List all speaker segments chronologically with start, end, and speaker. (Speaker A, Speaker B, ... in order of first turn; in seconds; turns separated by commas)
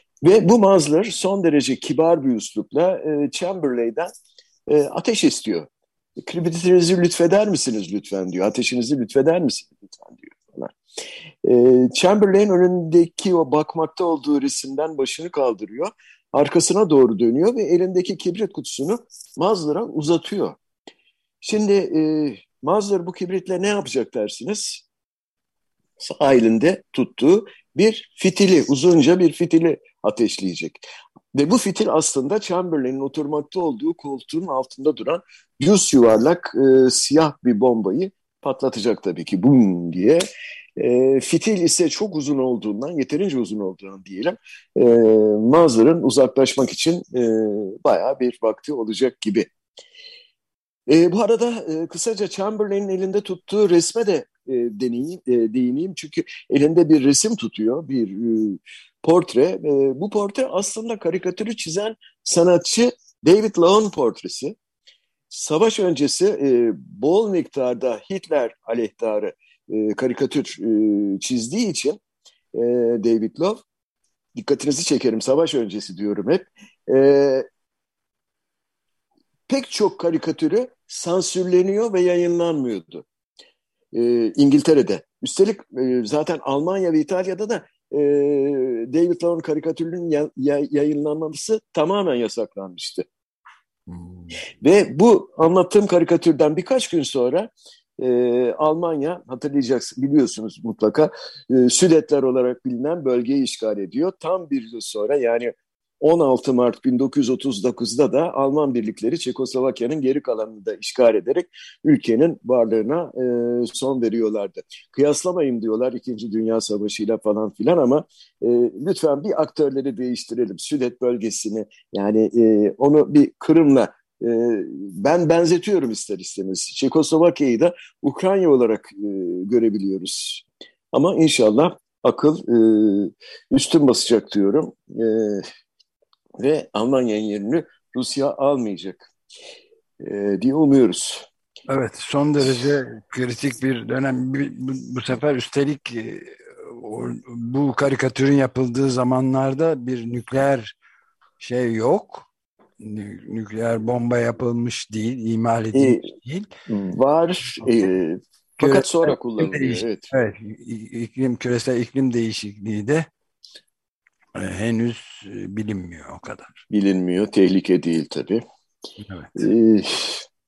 Speaker A: 0.2-4.1, Speaker A: 4.7-5.7, Speaker A: 6.2-10.7, Speaker A: 11.4-20.6, Speaker A: 21.4-24.8, Speaker A: 26.0-40.2, Speaker A: 40.8-49.5, Speaker A: 50.9-64.5, Speaker A: 65.3-72.0, Speaker A: 72.5-73.6, Speaker A: 74.3-77.5, Speaker A: 79.5-83.0, Speaker A: 83.9-93.0, Speaker B: 93.9-94.4, Speaker A: 94.6-135.5, Speaker A: 136.4-139.1, Speaker A: 140.0-141.3, Speaker B: 141.7-150.8, Speaker B: 151.4-152.3, Speaker B: 152.8-156.5, Speaker A: 155.7-156.1, Speaker A: 156.7-160.1, Speaker B: 158.6-163.1, Speaker B: 164.3-166.6, Speaker A: 166.7-168.4, Speaker B: 169.0-169.3, Speaker A: 169.3-170.3